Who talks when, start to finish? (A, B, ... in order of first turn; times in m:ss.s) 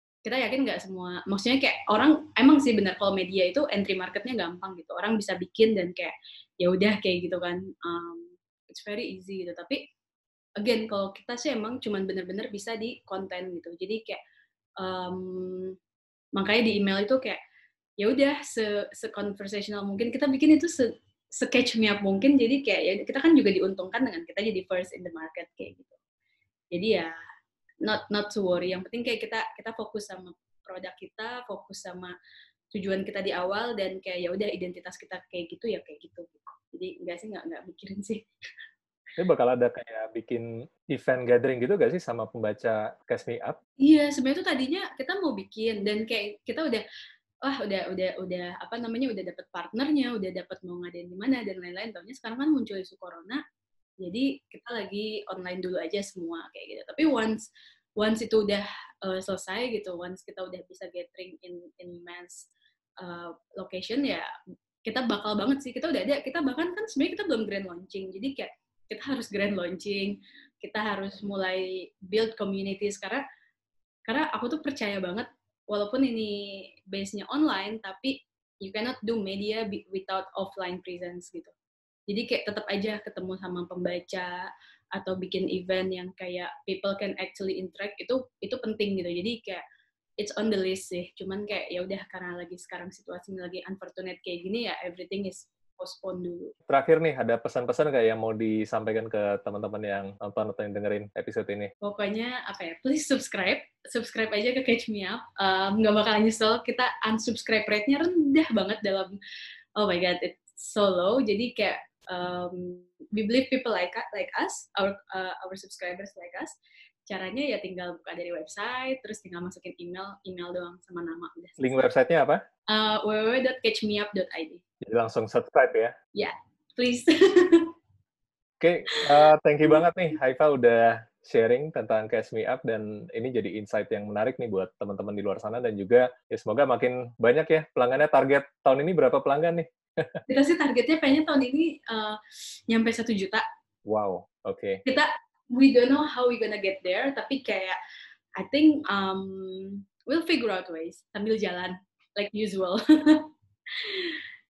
0:00.2-0:09.8 A
0:10.6-0:14.2 A
0:14.8-0:15.8 A
0:16.4-0:17.4 A
0:18.0-0:26.0 A
0:26.7-0:27.2 A
0:27.8-0:32.1 A
0:32.7-0:38.2 A
0:39.2-0:43.6 B
0:43.8-0:46.8 A
0:47.4-0:53.4 A
0:54.0-0:57.4 A
0:58.0-1:02.5 A
1:03.0-1:04.3 A
1:04.9-1:13.2 A
1:14.1-1:21.5 A
1:22.1-1:29.6 A
1:30.2-1:36.5 A
1:36.7-1:41.7 B
1:41.8-1:49.2 A
1:49.8-1:56.6 A
1:57.1-2:01.8 A
2:01.6-2:02.4 B
2:02.7-2:04.6 A
2:04.8-2:06.0 B
2:06.1-2:07.7 A
2:08.6-2:20.2 B
2:20.3-2:23.4 A
2:23.8-2:24.8 B
2:24.9-2:27.8 A
2:28.4-2:34.2 A